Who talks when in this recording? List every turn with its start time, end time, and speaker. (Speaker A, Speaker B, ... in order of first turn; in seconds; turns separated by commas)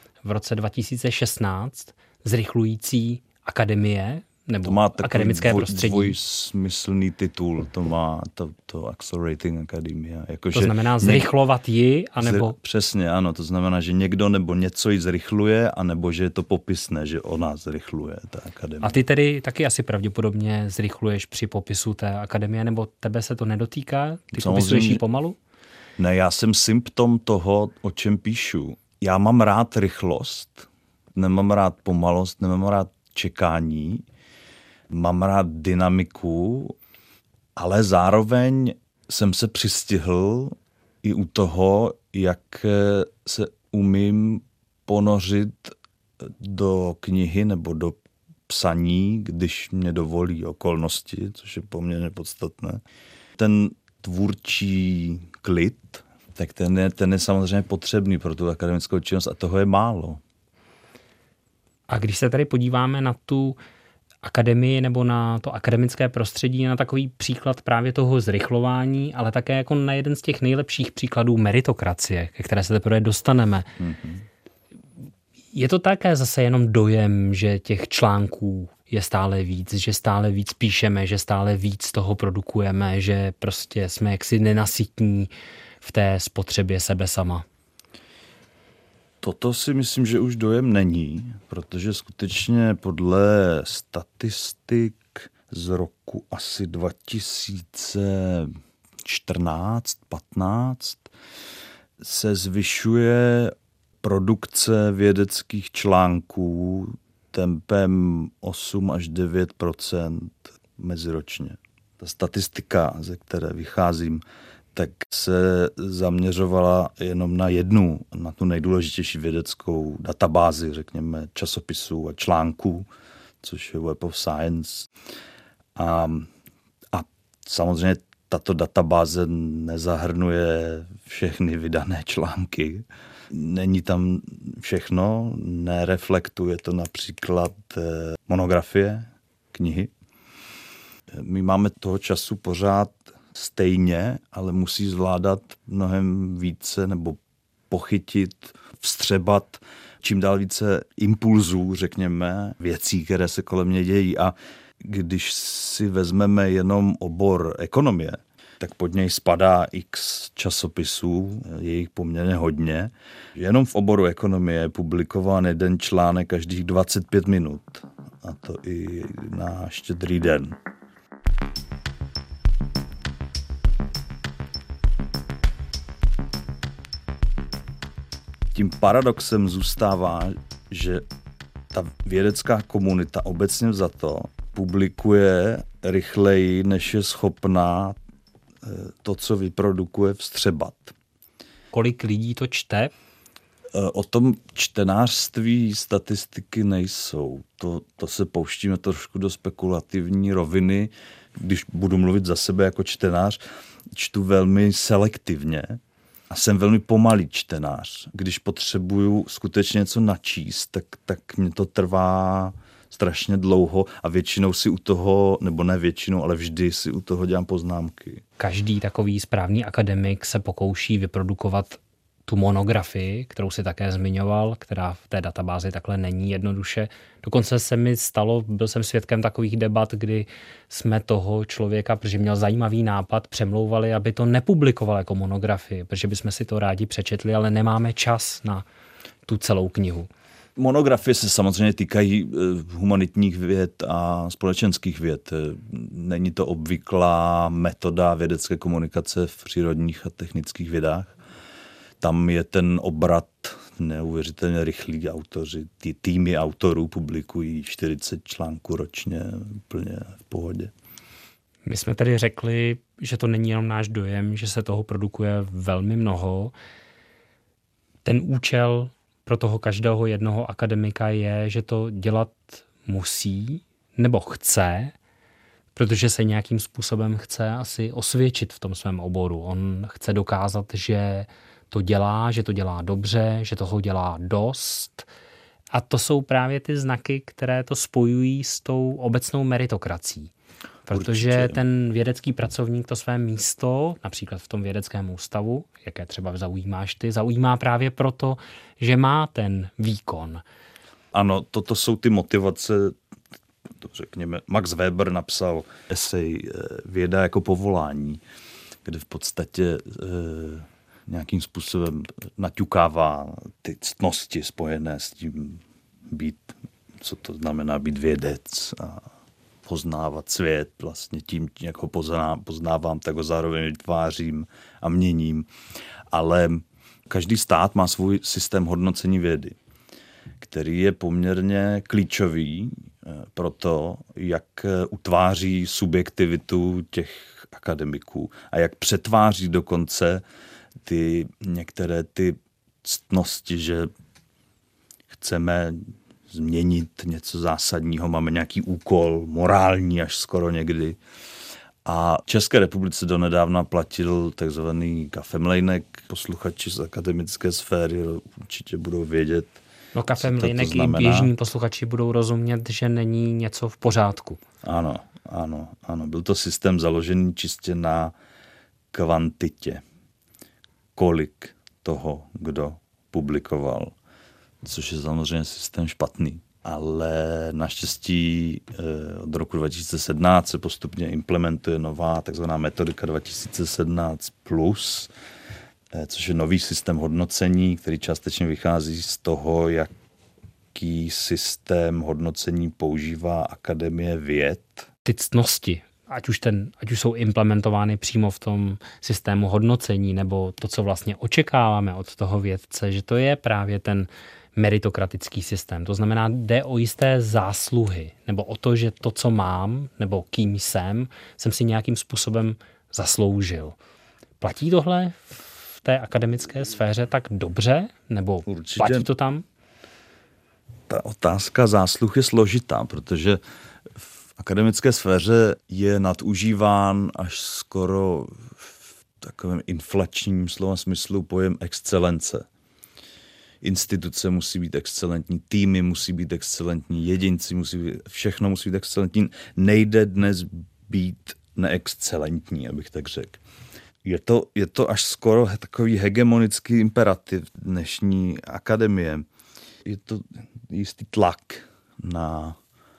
Speaker A: 0.2-6.2, Speaker B: 4.6-11.3, Speaker A: 10.5-12.5, Speaker B: 12.2-19.0, Speaker A: 18.8-25.4, Speaker B: 24.3-25.0, Speaker B: 26.0-34.0, Speaker B: 34.9-36.8, Speaker B: 37.5-52.8, Speaker B: 53.4-60.2, Speaker A: 61.9-63.6, Speaker A: 64.2-73.7, Speaker B: 73.8-74.2, Speaker A: 75.5-85.3, Speaker A: 85.8-87.4, Speaker B: 89.2-98.5, Speaker B: 99.0-101.1, Speaker B: 102.0-114.2, Speaker B: 114.7-122.9, Speaker B: 123.4-124.9, Speaker B: 125.8-126.3, Speaker B: 126.9-139.9, Speaker B: 141.1-147.2, Speaker B: 147.7-170.6, Speaker B: 178.5-181.0, Speaker B: 181.7-188.0, Speaker B: 188.6-190.9, Speaker A: 191.7-192.9, Speaker B: 193.7-203.4, Speaker B: 203.9-218.2, Speaker A: 218.4-238.6, Speaker A: 239.3-240.1, Speaker B: 240.6-251.1, Speaker B: 252.0-260.7, Speaker A: 261.6-266.5, Speaker A: 268.0-274.9, Speaker A: 275.7-285.1, Speaker A: 285.7-290.3, Speaker B: 290.9-291.6, Speaker A: 290.9-300.4, Speaker B: 301.1-302.9, Speaker B: 303.8-308.2, Speaker B: 308.8-319.1, Speaker B: 319.6-325.5, Speaker B: 326.1-329.6, Speaker B: 330.4-340.2, Speaker B: 340.8-343.9, Speaker B: 345.1-351.0, Speaker B: 351.8-359.6, Speaker A: 359.9-364.4, Speaker B: 360.1-361.3, Speaker B: 364.6-368.1, Speaker B: 368.9-369.8, Speaker B: 370.9-373.9, Speaker B: 374.6-385.1, Speaker B: 385.9-389.9, Speaker B: 390.7-394.9, Speaker A: 395.1-413.8, Speaker A: 414.4-419.4, Speaker B: 418.4-419.1, Speaker B: 420.9-423.4, Speaker B: 424.4-432.4, Speaker B: 433.6-443.4, Speaker B: 444.0-449.2, Speaker B: 449.8-452.6